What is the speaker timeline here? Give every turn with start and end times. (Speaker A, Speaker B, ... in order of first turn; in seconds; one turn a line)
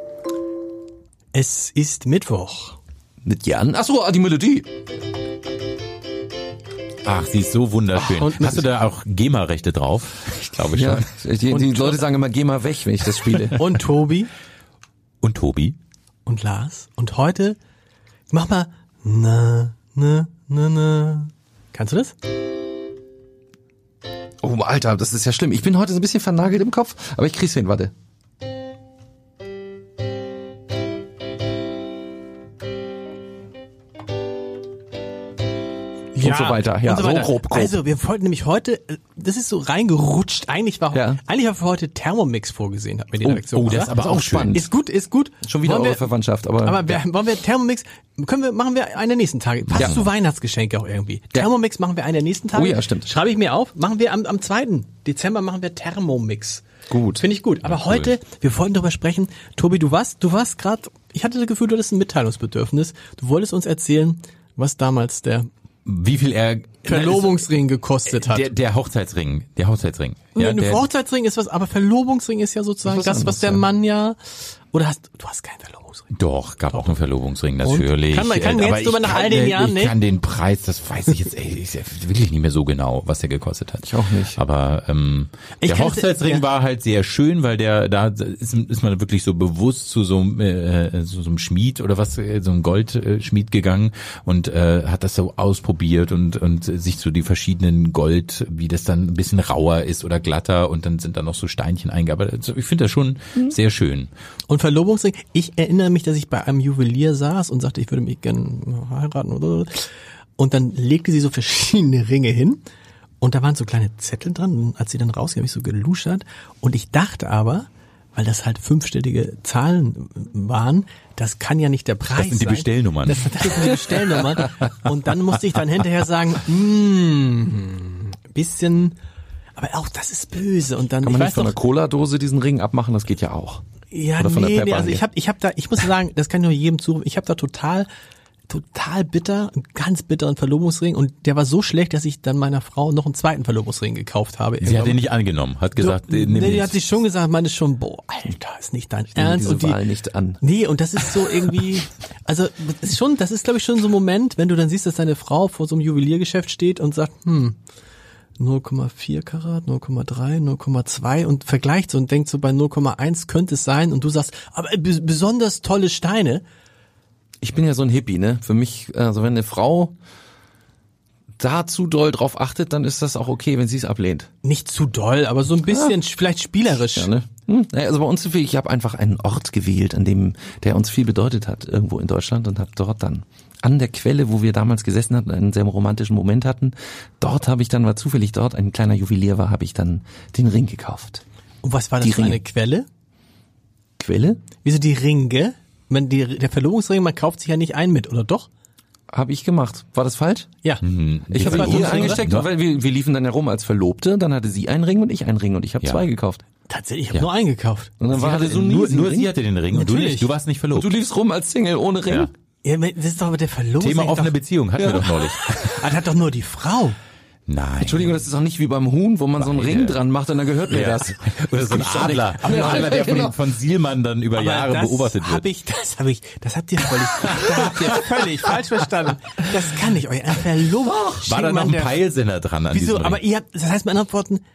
Speaker A: 1.3-2.8
Speaker B: 3.2-4.7
Speaker C: 7.0-11.1
Speaker A: 8.0-8.7
Speaker B: 10.7-13.6
Speaker A: 11.5-12.0
Speaker A: 13.5-14.3
Speaker C: 15.2-15.8
Speaker A: 16.2-17.6
Speaker A: 18.3-22.1
Speaker B: 24.4-27.9
Speaker A: 36.1-44.0
Speaker B: 36.2-37.8
Speaker B: 40.9-41.2
Speaker C: 43.2-44.6
Speaker B: 43.9-44.7
Speaker A: 44.5-46.0
Speaker B: 45.4-47.0
Speaker A: 46.6-56.6
Speaker B: 49.7-50.0
Speaker B: 52.5-53.1
Speaker B: 56.9-57.2
Speaker A: 57.2-65.5
Speaker C: 57.6-58.1
Speaker C: 65.8-67.4
Speaker A: 66.8-68.5
Speaker C: 68.1-70.8
Speaker A: 70.3-76.1
Speaker B: 72.8-73.7
Speaker C: 76.1-104.1
Speaker A: 77.6-80.0
Speaker B: 83.8-84.4
Speaker A: 85.6-86.4
Speaker A: 104.5-112.6
Speaker A: 113.2-129.0
Speaker C: 122.1-123.8
Speaker A: 129.6-131.5
Speaker B: 131.0-133.6
Speaker A: 133.9-137.9
Speaker B: 134.2-135.0
Speaker A: 138.5-145.0
Speaker C: 144.6-146.8
Speaker A: 145.8-149.8
Speaker B: 149.2-150.4
Speaker A: 150.4-157.6
Speaker A: 158.4-166.4
Speaker B: 167.4-169.9
Speaker B: 171.4-174.3
Speaker A: 174.4-177.1
Speaker B: 175.7-175.9
Speaker B: 176.7-191.2
Speaker A: 191.6-192.8
Speaker B: 192.0-192.4
Speaker B: 194.0-194.4
Speaker A: 194.6-198.5
Speaker B: 199.1-200.5
Speaker C: 200.8-202.5
Speaker B: 201.3-206.4
Speaker A: 201.4-202.3
Speaker A: 206.7-208.0
Speaker B: 208.0-209.3
Speaker C: 208.1-210.9
Speaker A: 209.7-210.3
Speaker B: 210.7-212.3
Speaker A: 212.6-214.3
Speaker C: 213.8-215.9
Speaker B: 214.8-215.1
Speaker A: 215.6-217.0
Speaker C: 217.5-218.2
Speaker B: 217.8-223.4
Speaker C: 219.4-220.0
Speaker C: 220.7-225.4
Speaker A: 222.4-223.2
Speaker A: 224.3-232.0
Speaker C: 227.4-228.0
Speaker C: 231.2-233.2
Speaker A: 232.7-234.4